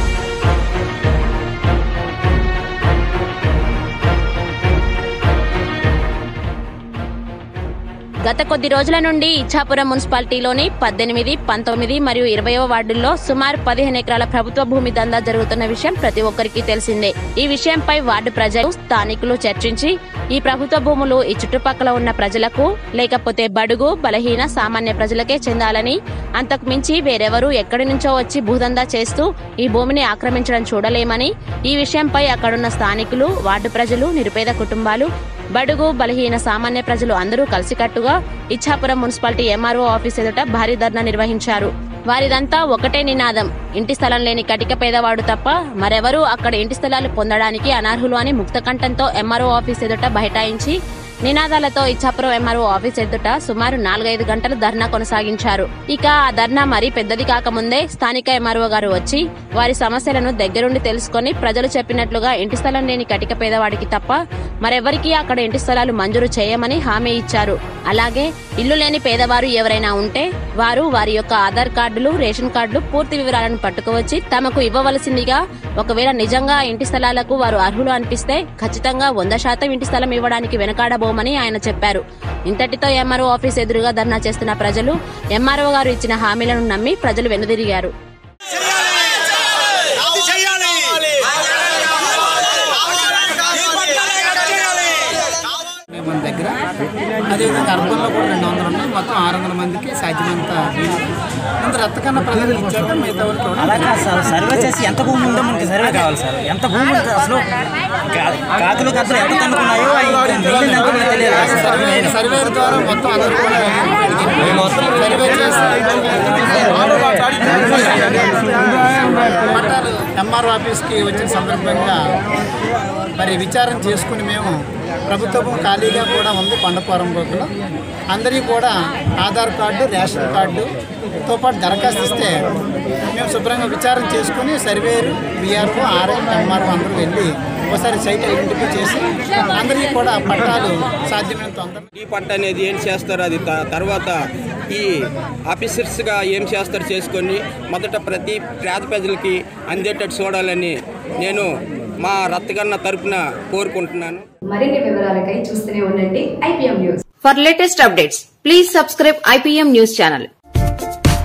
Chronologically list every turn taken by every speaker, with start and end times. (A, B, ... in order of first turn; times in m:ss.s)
0:08.2-1:27.9 A
1:35.9-1:36.6 B
1:37.3-1:41.0 B
1:41.6-1:43.8 B
1:43.6-1:47.5 C
1:48.1-1:52.1 C
1:51.9-1:58.6 B
1:59.3-2:02.0 B
2:03.2-2:07.5 B
2:08.1-2:10.7 B
2:11.3-2:12.4 B
2:13.1-2:21.8 B
2:22.0-2:24.2 D
2:24.7-2:31.5 D
2:32.0-2:34.2 D
2:34.5-2:37.0 E
2:37.2-2:40.3 F